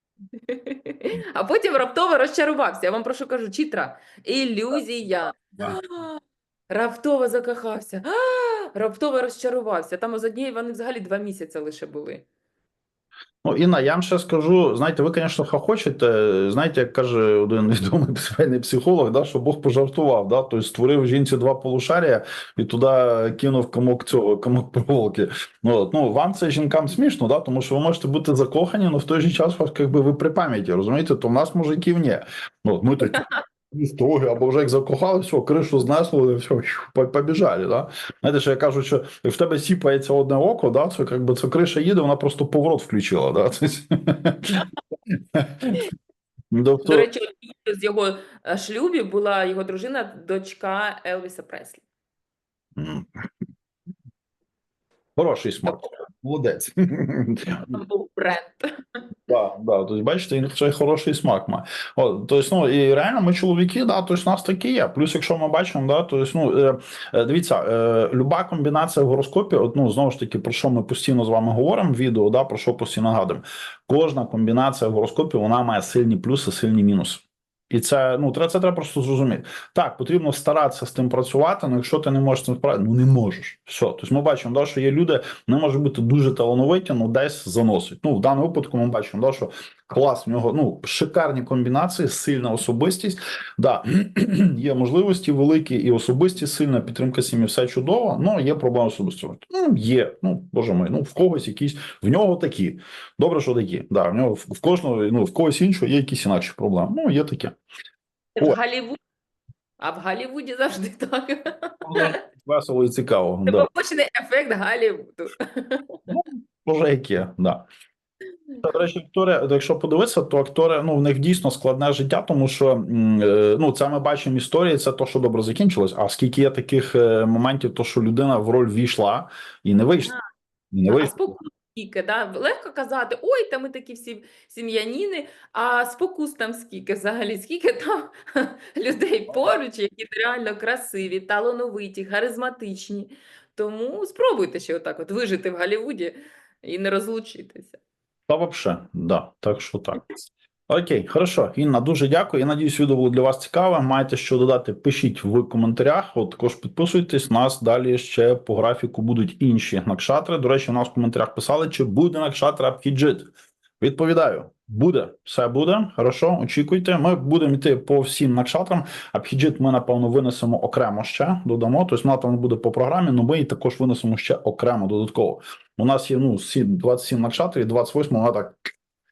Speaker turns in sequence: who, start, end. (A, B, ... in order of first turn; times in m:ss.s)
0:00.4-0:12.2 A
0:13.4-0:44.7 B
0:45.3-0:45.8 B
0:46.5-0:47.1 B
0:46.8-0:51.8 A
0:52.8-0:53.2 B
0:55.2-0:57.7 B
0:57.7-0:59.0 A
0:59.3-1:47.6 B
1:48.4-1:49.0 A
1:49.8-1:52.2 A
1:51.8-1:53.7 B
1:53.5-1:56.2 A
1:56.1-1:57.6 B
1:58.6-2:10.1 B
2:10.7-2:11.2 B
2:10.9-2:27.8 A
2:28.3-2:30.1 B
2:30.7-2:43.3 B
2:43.8-2:58.7 B